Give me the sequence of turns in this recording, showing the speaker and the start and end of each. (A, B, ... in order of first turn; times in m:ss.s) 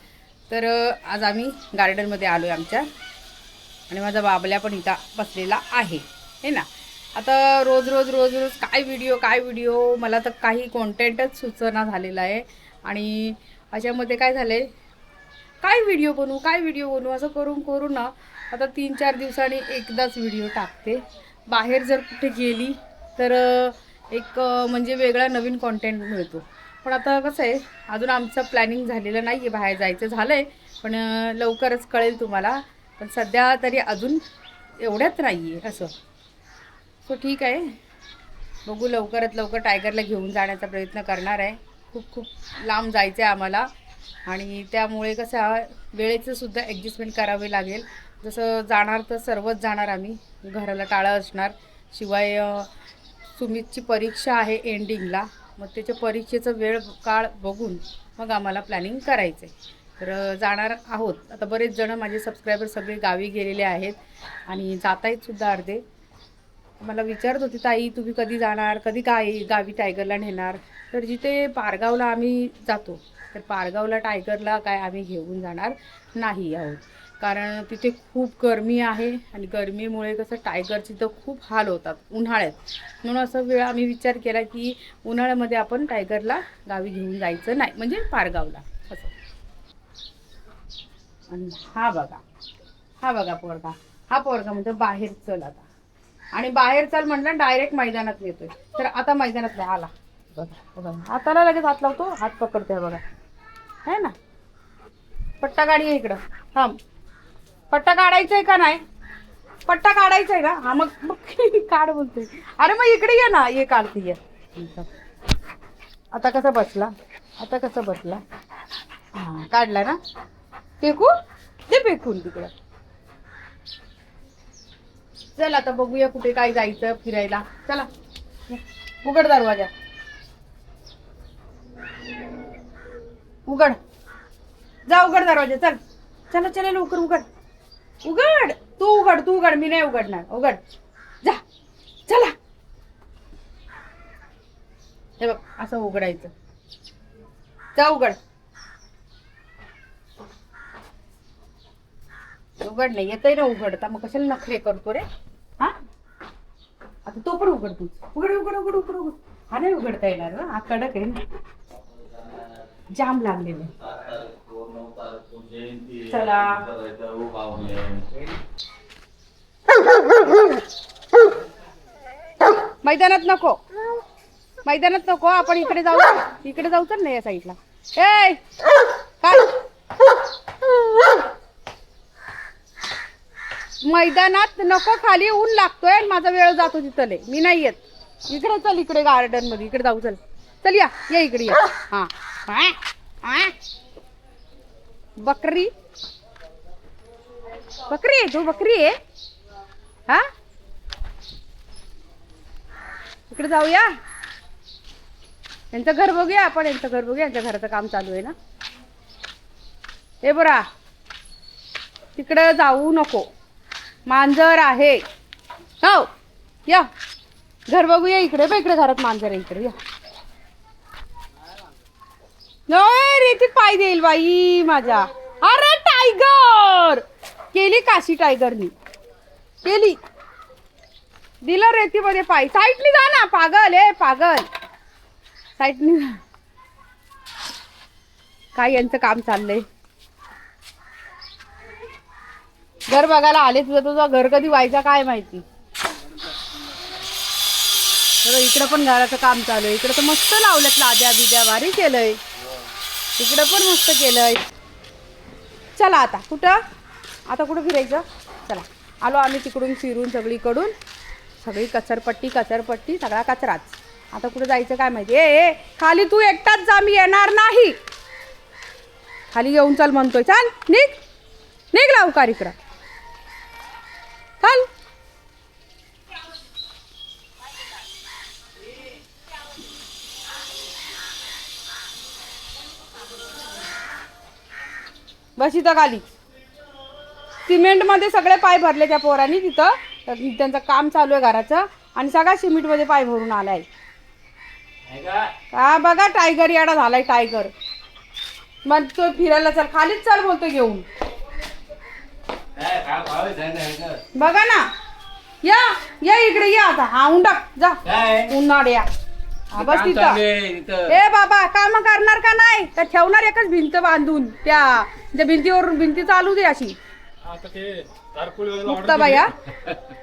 0:00.5-0:02.9 A
0:03.9-0:14.7 A
0:15.6-0:34.2 A
0:34.8-0:35.9 A
0:37.0-0:37.8 A
0:38.6-0:43.7 A
0:44.2-0:52.7 A
0:53.3-1:05.8 A
1:06.8-1:29.1 A
1:31.3-1:32.2 A
1:33.0-1:35.6 A
1:36.3-1:43.0 A
1:43.8-1:44.1 A
1:45.4-1:46.8 A
1:47.7-1:48.8 A
1:49.6-1:54.9 A
1:56.1-1:58.2 A
1:59.1-2:00.0 A
2:00.8-2:01.1 A
2:01.7-2:02.5 A
2:05.4-2:07.9 A
2:08.5-2:09.7 A
2:13.4-2:13.8 A
2:14.9-2:15.8 A
2:16.3-2:17.2 A
2:18.0-2:20.6 A
2:22.1-2:22.3 A
2:25.2-2:26.3 A
2:27.7-2:28.2 A
2:32.6-2:35.0 A
2:37.0-2:41.2 A
2:42.9-2:43.7 A
2:44.1-2:46.0 B
2:46.0-2:46.7 A
2:46.8-2:48.1 B
2:52.8-2:53.6 A
2:54.6-2:58.4 A
2:59.2-2:59.5 A
3:03.8-3:13.5 A
3:15.2-3:15.7 A
3:17.8-3:19.0 A
3:23.3-3:23.9 A
3:25.7-3:28.3 A
3:30.2-3:30.6 A
3:32.2-3:33.3 A
3:34.0-3:35.0 A
3:35.8-3:36.1 A
3:37.7-3:39.8 A
3:42.7-3:48.7 A
3:49.6-3:50.0 A
3:51.4-3:54.5 A
3:55.6-3:56.2 A
3:58.5-3:59.6 A
4:02.9-4:05.4 A
4:08.2-4:12.2 A
4:13.2-4:14.4 A
4:15.7-4:16.6 A
4:17.3-4:20.7 A
4:21.4-4:27.8 A
4:29.3-4:31.0 A
4:31.7-4:32.6 A
4:34.4-4:34.7 A
4:45.4-4:46.0 A
4:47.4-4:53.7 A
4:54.9-4:55.3 B
4:55.5-4:57.5 A
4:58.6-5:00.8 A
5:02.6-5:04.0 B
5:04.1-5:04.7 A
5:05.4-5:08.9 A
5:07.8-5:08.3 B
5:09.5-5:10.2 A
5:09.5-5:11.0 B
5:10.9-5:16.8 A
5:17.2-5:19.3 C
5:18.6-5:19.3 A